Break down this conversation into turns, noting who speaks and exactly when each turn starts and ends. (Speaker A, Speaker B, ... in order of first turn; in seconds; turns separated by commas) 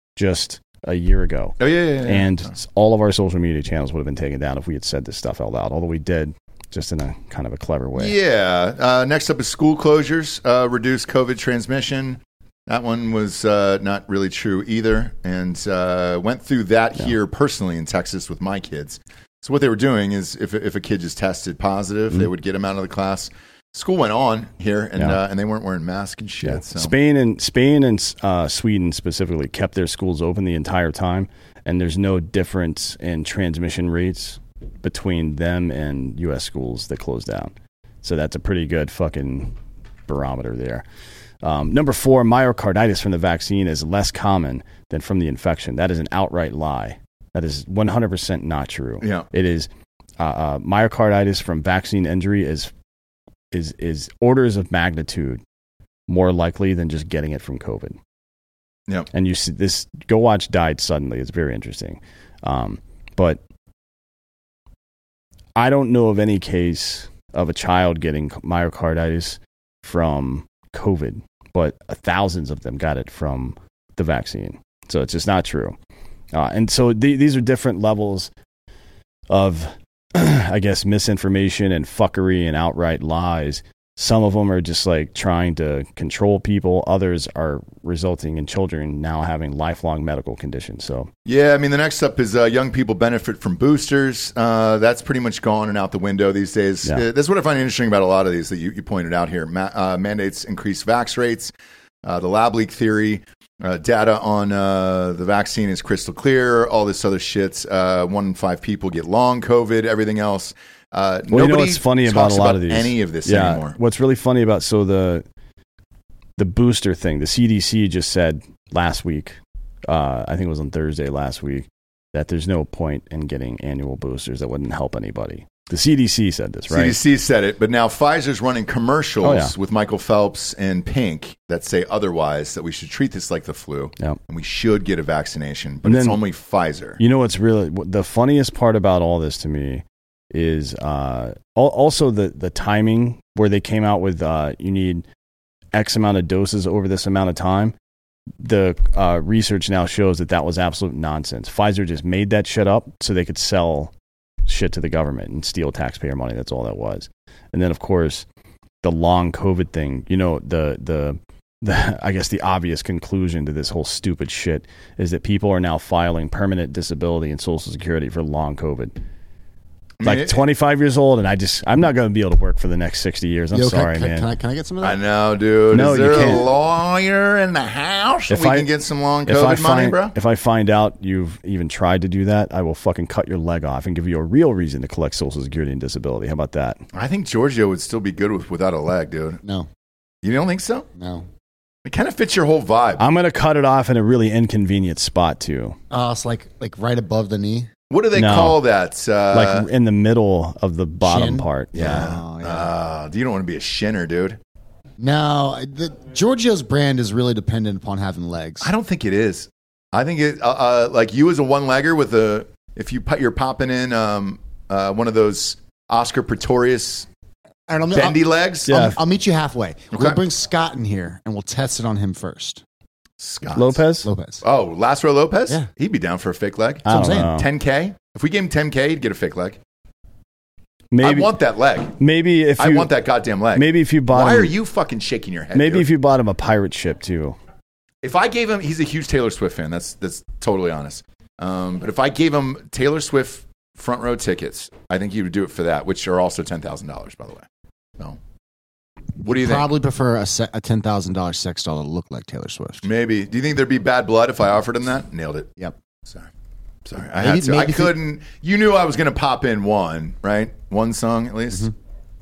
Speaker A: 0.2-8.2, Speaker B: 1.6-2.5, Speaker B: 8.0-26.9, Speaker A: 26.4-39.5, Speaker A: 40.1-40.9, Speaker A: 41.4-52.7, Speaker A: 53.5-55.4, Speaker A: 56.1-58.0, Speaker A: 59.1-63.4, Speaker A: 65.6-75.8, Speaker A: 76.3-78.3, Speaker A: 79.3-91.1, Speaker B: 91.2-101.5, Speaker B: 102.0-113.8, Speaker A: 111.3-115.2, Speaker A: 116.4-127.0, Speaker B: 126.7-137.0, Speaker A: 129.2-129.5, Speaker A: 135.8-136.2, Speaker A: 137.0-145.1, Speaker A: 145.7-147.8, Speaker A: 148.4-153.9, Speaker A: 154.5-158.2, Speaker A: 158.8-168.9, Speaker B: 170.0-170.4, Speaker A: 170.0-174.3, Speaker C: 173.5-175.0, Speaker B: 174.8-180.1, Speaker A: 175.7-176.5, Speaker A: 178.3-178.7, Speaker A: 179.3-186.8, Speaker B: 186.9-189.4, Speaker C: 189.4-189.7, Speaker B: 190.2-190.9, Speaker C: 191.0-191.3, Speaker B: 191.8-193.0, Speaker A: 193.0-195.8, Speaker C: 195.9-197.7, Speaker B: 197.9-199.7, Speaker A: 198.1-198.6, Speaker A: 199.3-202.1, Speaker C: 201.0-202.7, Speaker B: 201.7-204.4, Speaker C: 205.0-208.7, Speaker B: 208.6-217.1, Speaker C: 217.7-222.6, Speaker B: 217.9-218.8, Speaker A: 218.7-219.0, Speaker B: 219.9-220.2, Speaker B: 223.2-223.8, Speaker A: 223.6-224.1, Speaker C: 224.0-224.4, Speaker B: 224.4-229.6, Speaker A: 226.9-227.5, Speaker C: 226.9-227.3, Speaker A: 230.9-231.3, Speaker B: 231.0-232.0, Speaker A: 232.0-232.9, Speaker B: 232.6-235.9, Speaker A: 233.5-234.5, Speaker A: 235.5-237.4, Speaker B: 238.0-247.5, Speaker B: 249.2-249.7, Speaker C: 249.2-252.8, Speaker B: 252.8-255.6, Speaker B: 256.9-261.7, Speaker C: 257.2-258.0